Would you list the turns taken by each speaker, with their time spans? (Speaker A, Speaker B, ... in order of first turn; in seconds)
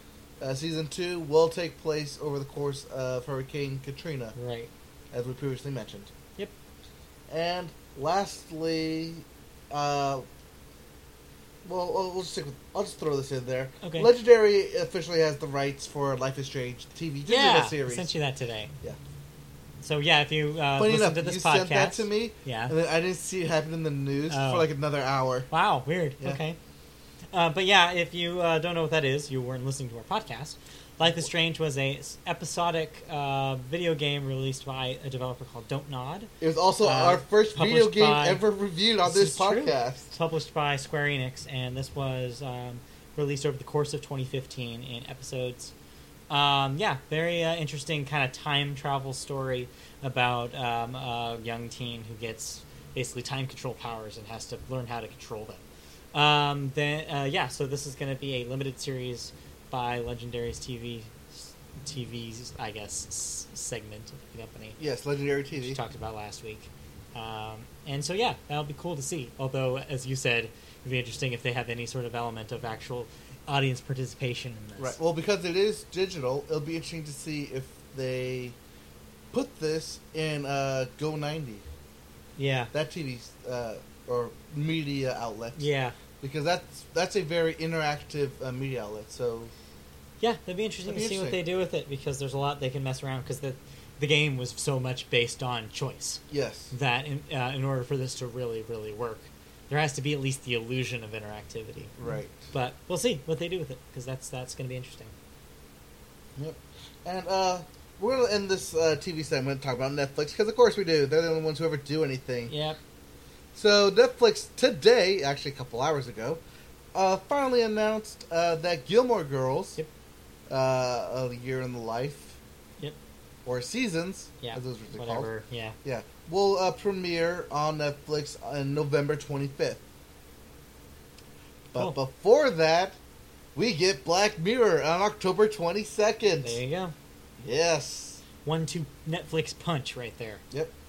Speaker A: 0.4-4.3, 5.1-6.1, 7.3-10.2, 11.7-18.1, 20.8-25.5, 36.4-40.1, 64.8-65.8, 74.8-78.6, 79.3-81.7, 82.7-85.6, 86.2-89.5, 90.8-91.4, 96.3-96.7, 102.0-102.5, 106.4-112.5, 113.5-116.4, 116.9-119.8, 120.5-122.4, 123.5-125.3, 125.8-129.8, 131.7-133.0, 133.6-136.6, 137.4-138.2
Speaker B: 4.4-4.7, 13.8-14.1, 17.3-18.7, 19.8-22.7, 24.3-24.7, 25.5-26.6, 27.3-38.4, 39.0-45.7, 46.3-55.6, 56.1-64.8, 65.5-75.0, 82.4-82.7, 85.6-86.0, 90.2-102.0, 102.5-105.1, 112.5-112.8, 124.4-125.8, 136.4-136.9, 138.4-140.4